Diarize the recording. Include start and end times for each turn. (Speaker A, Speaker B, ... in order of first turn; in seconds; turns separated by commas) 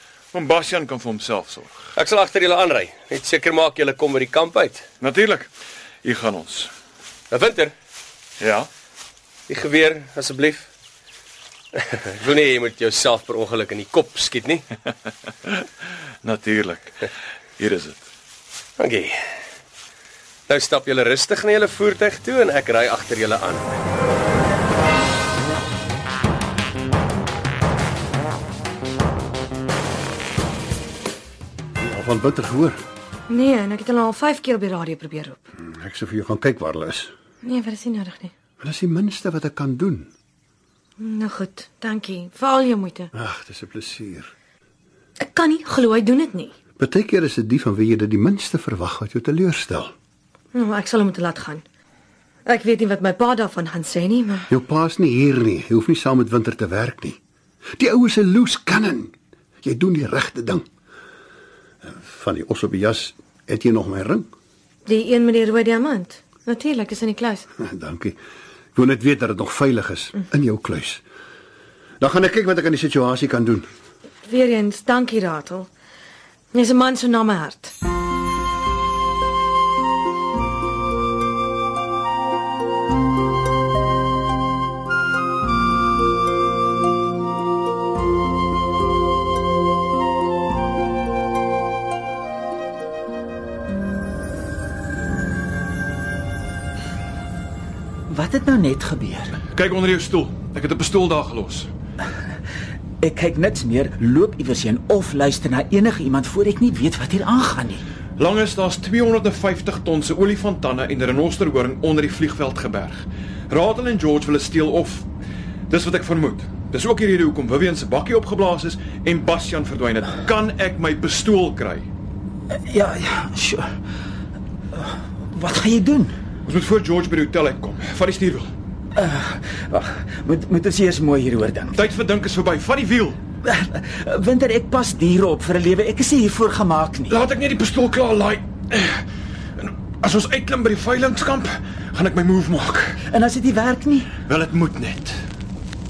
Speaker A: 0.3-1.9, Speaker B: 2.0-4.9, Speaker A: 5.0-5.5, Speaker A: 6.0-6.7, Speaker B: 7.3-7.7, Speaker A: 8.4-8.7, Speaker B: 9.5-10.7, Speaker B: 11.8-14.7, Speaker A: 16.2-17.0, Speaker A: 17.6-18.1, Speaker B: 18.8-19.2, Speaker B: 20.5-23.8, Speaker C: 31.8-32.8, Speaker D: 33.3-35.4, Speaker C: 35.6-37.1, Speaker D: 37.4-38.3, Speaker C: 38.6-40.1, Speaker D: 41.0-43.1, Speaker C: 43.1-44.3, Speaker D: 45.2-46.5, Speaker C: 46.8-49.9, Speaker D: 50.5-51.6, Speaker D: 52.5-54.5, Speaker C: 54.5-57.2, Speaker C: 57.8-60.6, Speaker C: 61.9-64.3, Speaker D: 64.9-67.5, Speaker C: 67.6-68.2, Speaker C: 68.8-71.0, Speaker C: 72.0-73.7, Speaker D: 74.3-75.7, Speaker D: 76.5-77.7, Speaker E: 98.1-99.3, Speaker A: 99.5-101.7, Speaker E: 103.0-107.8, Speaker A: 108.2-115.1, Speaker A: 115.7-121.9, Speaker E: 122.7-123.7, Speaker E: 124.8-126.2, Speaker A: 126.5-128.5, Speaker E: 129.0-131.8, Speaker A: 131.7-133.2, Speaker E: 133.4-137.1, Speaker A: 137.1-139.1, Speaker A: 139.6-143.0, Speaker E: 143.1-144.1, Speaker A: 144.3-145.2